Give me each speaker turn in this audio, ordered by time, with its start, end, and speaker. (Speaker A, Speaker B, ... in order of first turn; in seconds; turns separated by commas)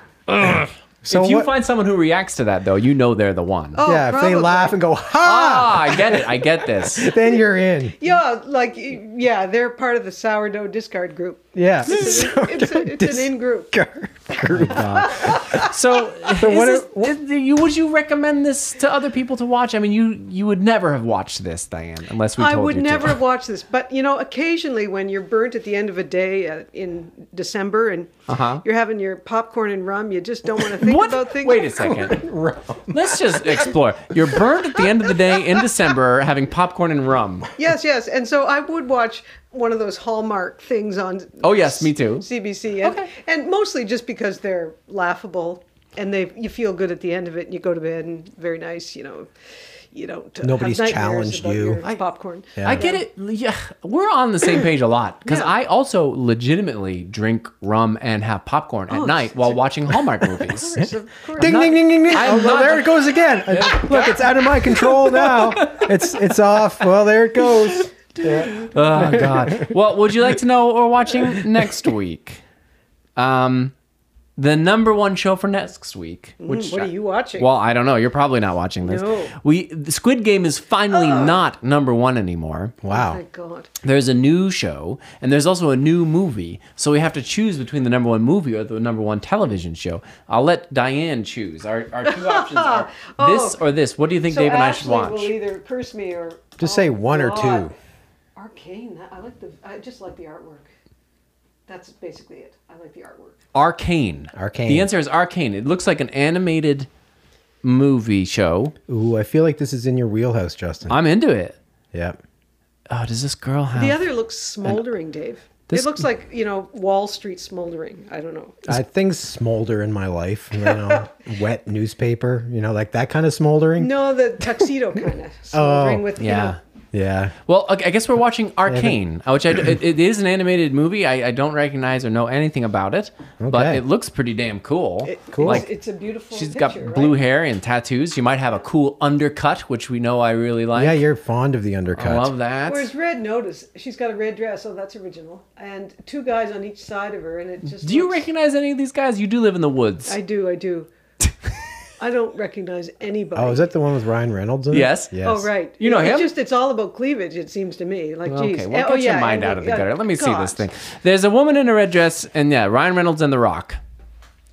Speaker A: 0.3-3.9, Speaker B: 0.4-1.5, Speaker C: 3.8-4.8, Speaker B: 3.9-6.2, Speaker A: 5.2-7.1, Speaker B: 6.9-8.0, Speaker C: 8.0-13.7, Speaker B: 11.6-15.5, Speaker A: 14.5-23.2, Speaker C: 14.6-15.7, Speaker B: 16.4-17.1, Speaker C: 22.4-32.2, Speaker A: 28.3-28.6, Speaker A: 30.8-32.3, Speaker B: 31.9-33.4, Speaker A: 32.9-37.5, Speaker C: 37.6-49.3, Speaker A: 41.4-42.3, Speaker A: 42.8-43.1, Speaker C: 49.9-53.1, Speaker B: 50.4-51.8, Speaker B: 52.6-52.8, Speaker A: 52.6-60.8, Speaker C: 55.3-55.5, Speaker C: 58.9-59.6, Speaker C: 60.4-62.5, Speaker B: 61.4-69.7, Speaker A: 61.4-66.6, Speaker A: 67.4-72.4, Speaker A: 73.2-73.7, Speaker A: 74.4-82.8, Speaker C: 76.4-77.5, Speaker C: 78.8-79.3, Speaker B: 82.8-83.2, Speaker C: 82.9-83.7, Speaker A: 83.8-95.3, Speaker C: 92.1-93.6, Speaker C: 94.3-97.7, Speaker B: 96.6-97.7, Speaker C: 98.3-100.7, Speaker C: 101.7-103.4, Speaker A: 103.5-106.9, Speaker B: 104.3-104.9, Speaker A: 107.6-108.8, Speaker B: 108.9-111.0, Speaker A: 110.9-111.6, Speaker A: 112.9-114.0, Speaker C: 113.7-118.7, Speaker A: 115.7-116.1, Speaker B: 118.7-123.9, Speaker C: 120.7-121.0, Speaker C: 123.8-126.6, Speaker B: 125.5-126.1, Speaker A: 126.2-126.6, Speaker B: 126.9-127.3, Speaker A: 127.5-135.7, Speaker B: 128.7-129.0, Speaker B: 133.4-133.8, Speaker C: 135.1-137.2, Speaker B: 135.3-135.6, Speaker A: 136.3-141.0, Speaker B: 140.8-142.3, Speaker A: 141.9-142.9, Speaker C: 142.7-148.3, Speaker A: 147.7-150.2, Speaker C: 150.1-150.9, Speaker C: 152.0-153.7, Speaker B: 153.3-155.5, Speaker A: 154.7-155.2, Speaker C: 155.2-160.6, Speaker A: 155.8-156.3, Speaker A: 158.3-163.8